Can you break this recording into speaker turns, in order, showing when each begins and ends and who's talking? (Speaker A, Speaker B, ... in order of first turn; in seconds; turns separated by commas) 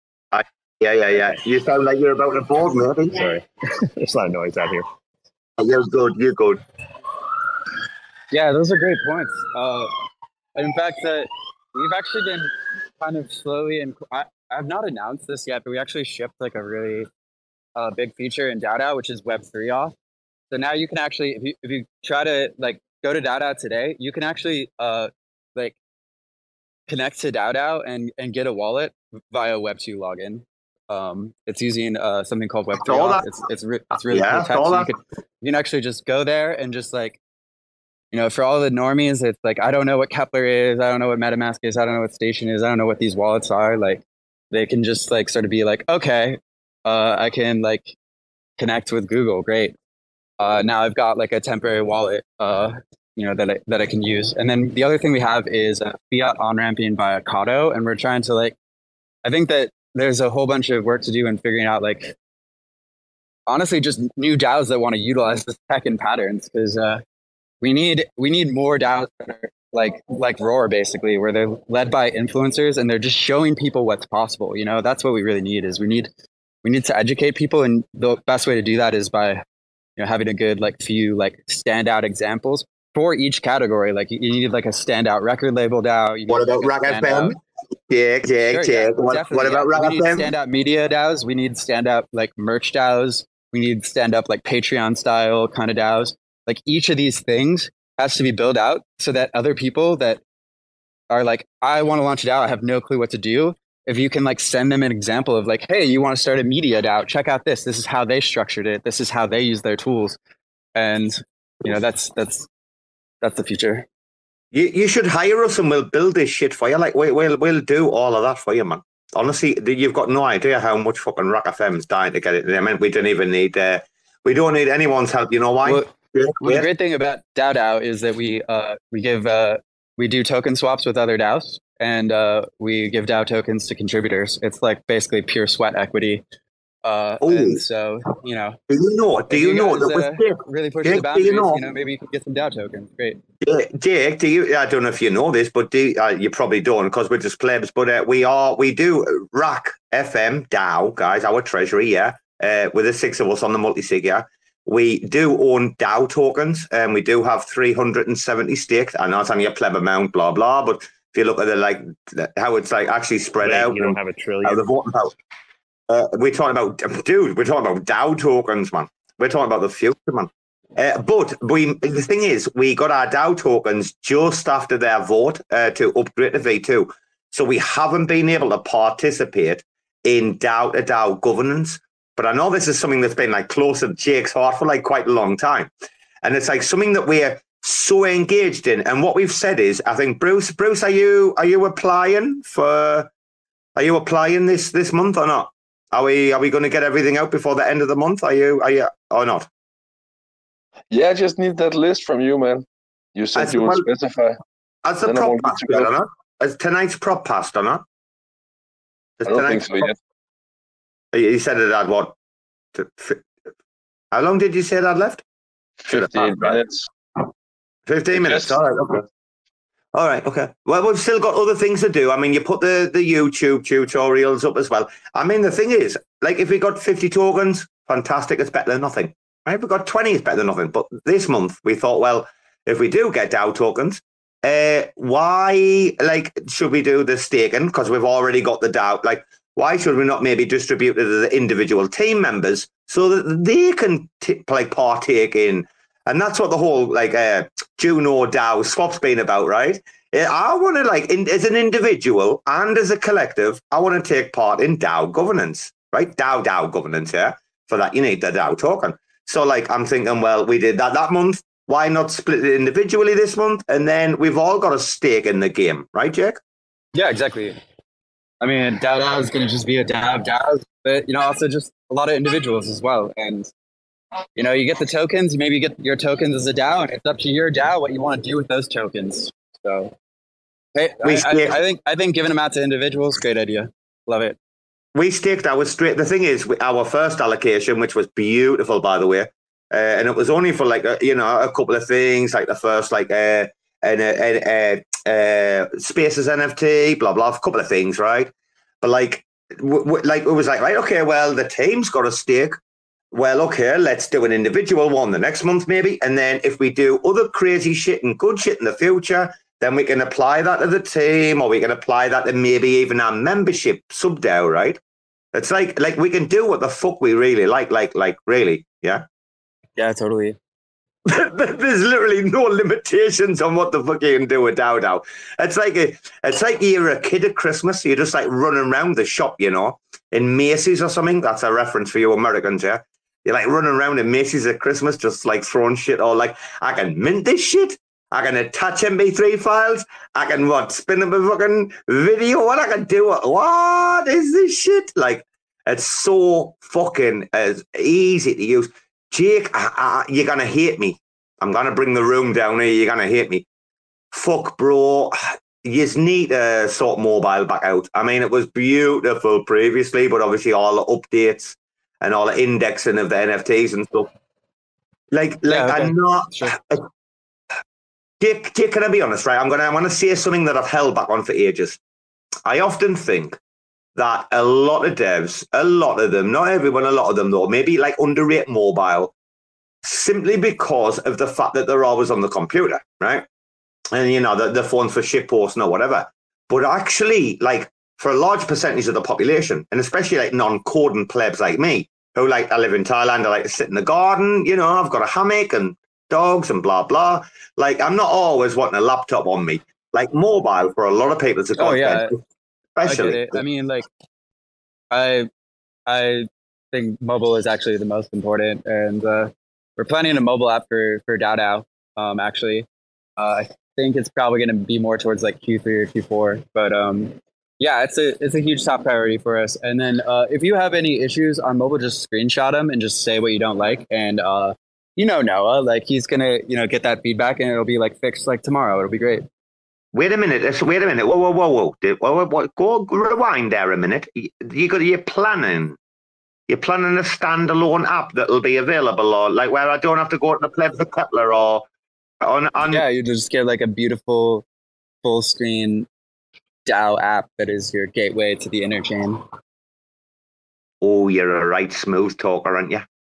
Speaker A: 0.3-3.3, Speaker B: 3.1-4.9, Speaker A: 5.6-6.6, Speaker C: 8.3-9.9, Speaker C: 10.6-17.1, Speaker C: 17.8-19.9, Speaker C: 20.5-25.8, Speaker C: 26.9-37.2, Speaker A: 32.8-33.2, Speaker A: 34.0-34.9, Speaker C: 38.1-47.9, Speaker C: 48.6-49.7, Speaker C: 50.4-58.5, Speaker C: 59.2-62.1, Speaker C: 63.5-67.0, Speaker C: 67.6-76.1, Speaker C: 76.6-79.4, Speaker C: 80.0-87.3, Speaker A: 86.3-90.3, Speaker C: 88.5-100.2, Speaker C: 101.1-110.2, Speaker C: 110.8-112.5, Speaker C: 113.2-113.8, Speaker A: 114.5-126.7, Speaker C: 125.6-125.9, Speaker C: 126.4-136.2, Speaker C: 136.8-138.6, Speaker A: 137.2-137.6, Speaker A: 138.7-141.6, Speaker C: 139.3-143.2, Speaker A: 143.4-165.1, Speaker B: 163.4-164.6, Speaker A: 165.9-185.7, Speaker A: 186.2-193.1, Speaker A: 193.8-199.5, Speaker D: 200.9-204.4, Speaker A: 203.3-203.8, Speaker A: 204.8-207.8, Speaker D: 205.0-205.9, Speaker A: 209.2-209.8, Speaker D: 209.3-209.9, Speaker A: 211.1-212.1, Speaker A: 212.7-213.3, Speaker A: 214.1-215.2, Speaker D: 215.8-216.9, Speaker A: 215.9-216.6, Speaker A: 217.9-219.1, Speaker D: 218.1-218.6, Speaker A: 219.9-266.4, Speaker C: 266.9-267.6, Speaker C: 268.4-273.5, Speaker C: 274.4-279.9, Speaker C: 280.7-284.4, Speaker A: 281.0-281.6, Speaker A: 284.9-302.6, Speaker A: 303.1-314.8, Speaker A: 315.3-319.0, Speaker C: 319.8-320.4, Speaker A: 321.1-353.4, Speaker A: 354.1-364.1, Speaker A: 365.1-366.9, Speaker C: 365.5-366.6, Speaker A: 368.2-371.8, Speaker A: 372.4-373.4, Speaker A: 373.9-379.1, Speaker A: 379.8-383.2, Speaker A: 383.9-402.2, Speaker C: 401.6-402.1, Speaker A: 402.8-403.4, Speaker C: 402.8-403.9, Speaker C: 404.9-405.3, Speaker C: 405.9-412.7, Speaker C: 413.2-429.2, Speaker A: 429.9-435.8, Speaker A: 436.5-441.7, Speaker A: 442.2-442.8, Speaker C: 442.7-444.4, Speaker C: 445.0-445.9, Speaker C: 446.6-449.2, Speaker A: 450.8-452.8